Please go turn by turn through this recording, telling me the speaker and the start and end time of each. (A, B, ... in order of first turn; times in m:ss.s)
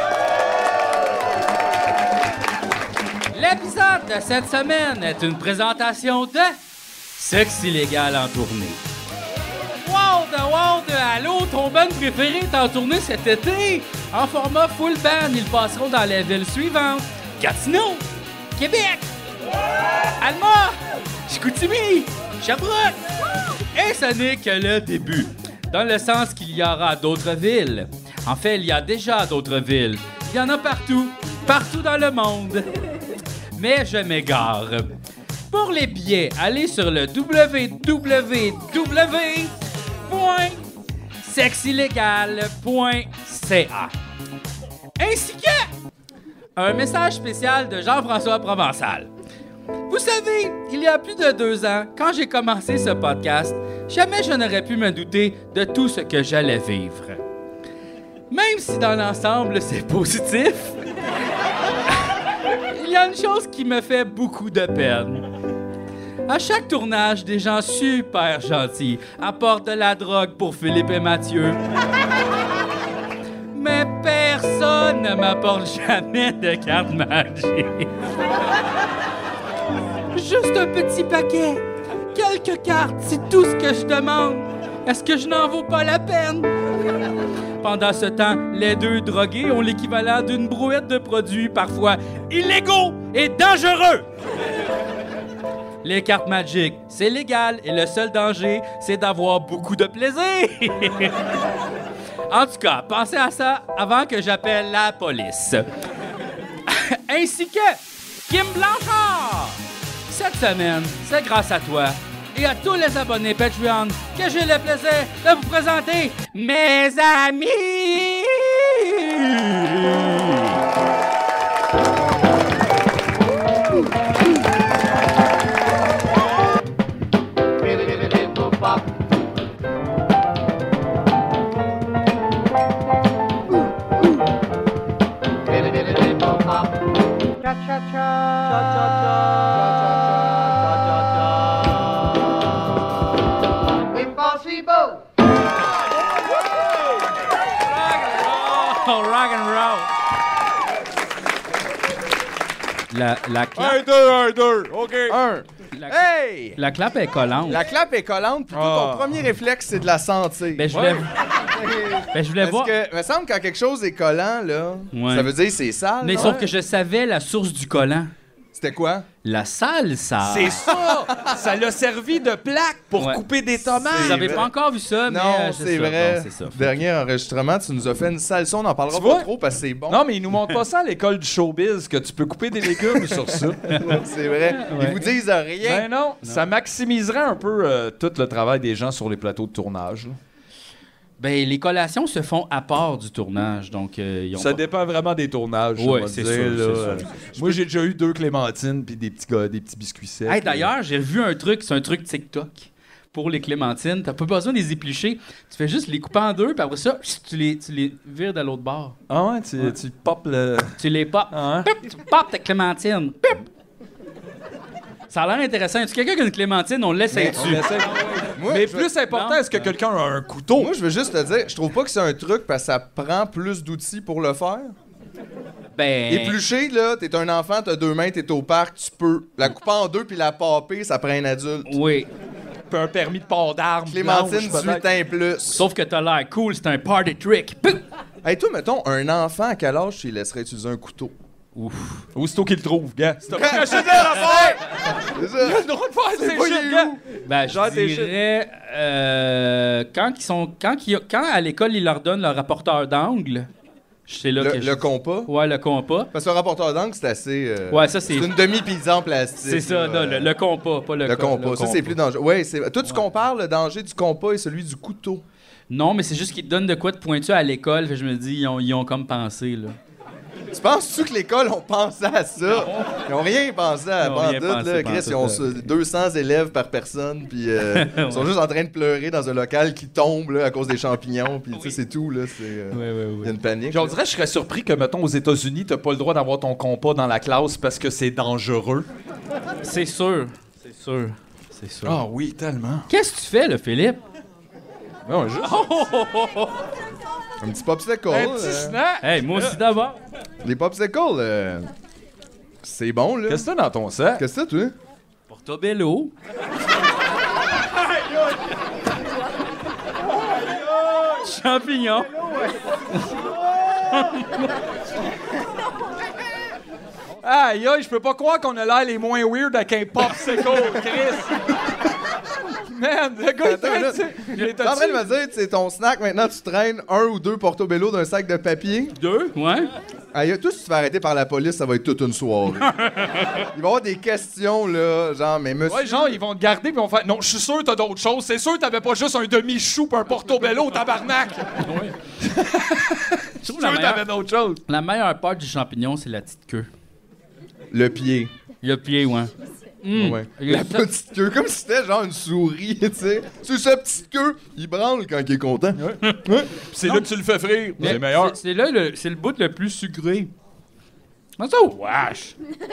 0:03.3-0:06.5 A
0:07.2-0:08.8 A
0:09.8-0:18.0 A
0:18.6-0:19.1 A
0:20.2-0:20.8 A
0:21.3-0:23.0 A
0:23.7-0:32.7 A
0:33.6-0:34.9 A
0:35.5-0:39.5 A
0:40.1-0:40.7 A
0:41.2-0:43.9 A
0:45.0-0:45.6 A
0:46.6-0:49.1 A
0:49.9-0:57.2 A
0:58.3-1:00.8 A
1:02.0-1:05.2 A
1:06.3-1:11.6 A
1:13.5-1:17.9 A
1:20.1-1:26.5 A
1:27.6-1:34.0 A
1:35.8-1:41.3 A
1:42.3-1:45.6 A
1:46.7-2:00.5 A
2:07.7-2:08.8 B
2:15.5-2:16.8 B
2:17.4-2:18.6 B
2:23.8-2:25.0 B
2:27.7-2:29.9 A
2:32.9-2:33.8 A
2:33.6-2:35.2 C
2:35.1-2:36.6 D
2:35.7-2:36.0 A
2:36.6-2:37.6 A
2:37.5-2:40.7 D
2:38.5-2:39.1 C
2:40.6-2:41.1 A
2:40.7-2:41.0 C
2:41.5-2:46.4 D
2:42.1-2:42.7 A
2:44.9-2:45.3 A
2:46.0-2:48.1 A
2:46.2-2:46.5 C
2:48.5-2:49.0 D
2:49.2-2:50.7 A
2:50.2-2:54.4 C
2:53.0-2:56.8 A
2:53.8-2:54.5 D
2:55.0-3:00.0 D
2:58.9-2:59.3 C
2:59.9-3:03.7 C
3:03.7-3:05.9 D
3:03.7-3:04.0 A
3:04.6-3:04.9 A
3:05.6-3:10.2 C
3:11.2-3:14.6 A
3:14.3-3:20.7 C
3:15.8-3:17.6 A
3:20.2-3:29.0 A
3:29.1-3:30.8 C
3:30.8-3:33.5 A
3:31.3-3:31.7 C
3:35.1-3:37.7 A
3:37.1-3:37.4 D
3:37.3-3:40.7 C
3:38.3-3:38.9 D
3:39.1-3:39.7 A
3:40.5-3:44.7 D
3:45.7-3:46.4 A
3:46.1-3:51.8 D
3:51.7-3:52.1 A
3:52.7-3:54.8 C
3:53.9-3:55.6 D
3:55.5-3:57.8 A
3:58.2-4:01.1 D
4:01.5-4:02.0 A
4:02.1-4:04.6 C
4:03.3-4:07.0 D
4:05.4-4:08.1 C
4:07.2-4:13.5 A
4:14.1-4:16.1 A
4:14.4-4:15.3 D
4:16.1-4:20.3 D
4:17.7-4:18.3 A
4:19.4-4:22.0 A
4:21.0-4:25.2 D
4:25.7-4:29.8 A
4:30.5-4:43.9 D
4:32.5-4:33.0 A
4:34.0-4:35.7 A
4:37.7-4:38.3 A
4:42.7-4:43.3 A
4:43.7-4:48.9 C
4:49.6-4:52.0 A
4:51.8-4:52.9 C
4:52.9-4:54.0 A
4:55.0-4:55.7 C
4:55.4-4:56.6 A
4:57.4-4:58.8 D
4:58.1-4:59.6 C
4:59.0-5:00.0 A
5:00.4-5:01.7 D
5:02.6-5:03.5 D
5:03.3-5:04.2 C
5:04.2-5:04.7 D
5:05.3-5:06.1 A
5:11.2-5:12.3 A
5:13.8-5:14.5 A
5:17.2-5:21.4 C
5:22.6-5:25.1 C
5:23.4-5:29.0 D
5:29.0-5:29.7 A
5:30.1-5:32.7 D
5:32.6-5:33.4 A
5:33.5-5:36.2 D
5:35.7-5:41.6 C
5:41.6-5:42.0 A
5:42.2-5:44.6 C
5:42.7-5:44.1 A
5:44.7-5:46.7 A
5:47.7-5:48.3 D
5:48.6-5:49.3 A
5:49.8-5:50.9 A
5:49.9-5:56.7 D
5:55.8-5:56.0 C
5:56.6-5:58.4 C
5:57.8-6:00.3 A
6:01.4-6:02.3 A